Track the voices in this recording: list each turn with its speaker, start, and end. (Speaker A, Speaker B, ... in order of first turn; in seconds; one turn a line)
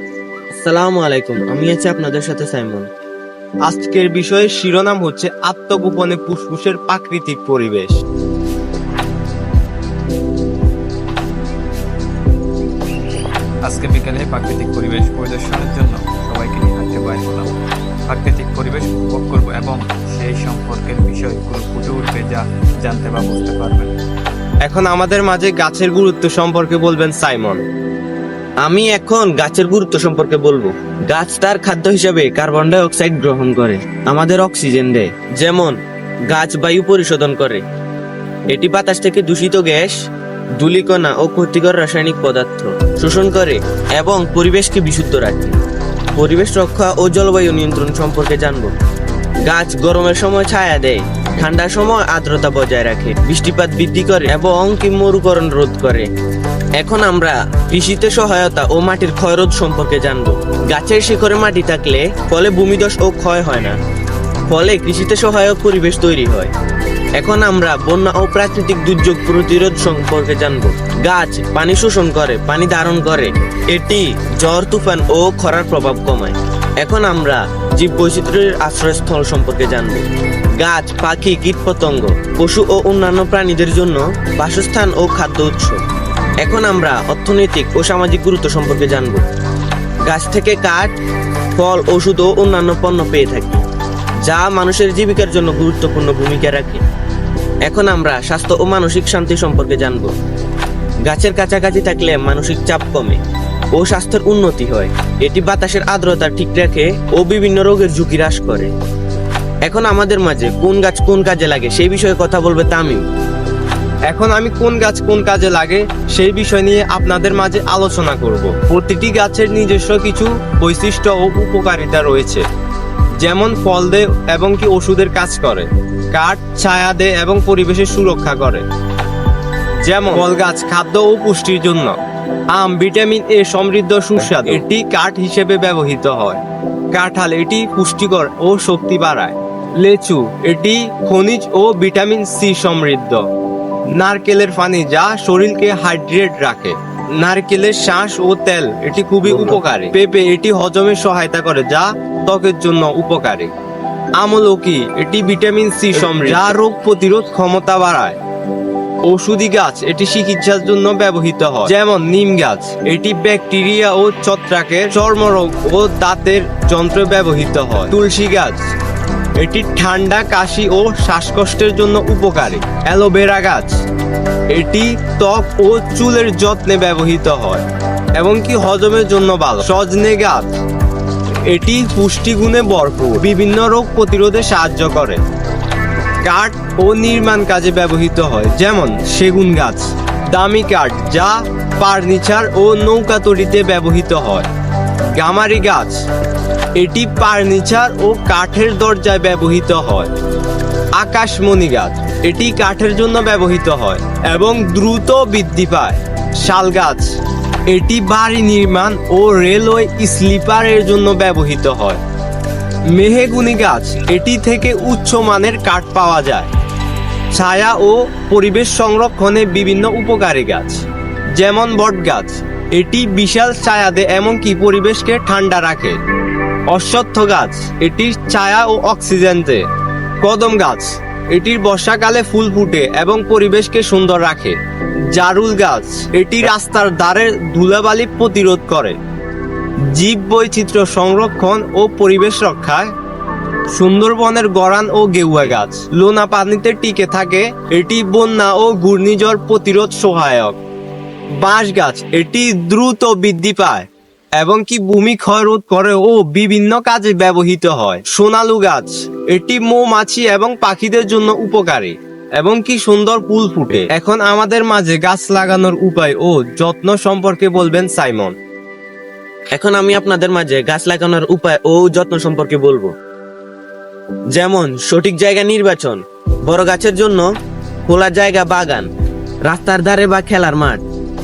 Speaker A: 0.5-2.9
Speaker B: 3.7-8.0
Speaker C: 13.7-17.5
Speaker C: 18.1-23.9
Speaker B: 24.6-27.6
Speaker A: 28.6-35.8
Speaker A: 36.3-37.6
Speaker A: 38.5-40.0
Speaker A: 40.6-45.5
Speaker A: 46.2-48.7
Speaker A: 49.5-56.1
Speaker A: 56.8-63.8
Speaker A: 64.5-66.5
Speaker A: 67.2-80.1
Speaker A: 80.6-85.8
Speaker A: 86.4-89.2
Speaker A: 90.1-90.9
Speaker A: 91.6-93.6
Speaker A: 94.2-96.8
Speaker A: 97.7-100.1
Speaker A: 101.1-103.2
Speaker A: 103.8-108.7
Speaker A: 109.7-113.0
Speaker B: 114.1-122.4
Speaker B: 123.2-128.6
Speaker B: 129.8-132.0
Speaker B: 132.5-136.4
Speaker A: 134.2-134.6
Speaker B: 136.9-143.2
Speaker B: 144.0-153.5
Speaker A: 149.3-149.6
Speaker B: 154.2-158.2
Speaker A: 156.0-156.6
Speaker B: 159.1-168.7
Speaker B: 169.4-173.8
Speaker B: 174.5-177.7
Speaker B: 178.2-180.6
Speaker B: 181.5-185.2
Speaker B: 186.2-194.5
Speaker B: 195.2-196.0
Speaker B: 196.8-200.1
Speaker B: 201.0-207.1
Speaker B: 207.7-212.0
Speaker B: 212.9-216.5
Speaker B: 217.3-220.8
Speaker B: 221.4-226.0
Speaker B: 226.7-229.6
Speaker B: 230.2-234.6
Speaker B: 235.1-239.0
Speaker B: 239.9-242.9
Speaker B: 243.7-250.6
Speaker B: 251.4-268.4
Speaker A: 269.5-272.9
Speaker A: 274.3-277.3
Speaker A: 277.9-278.9
Speaker A: 279.5-280.8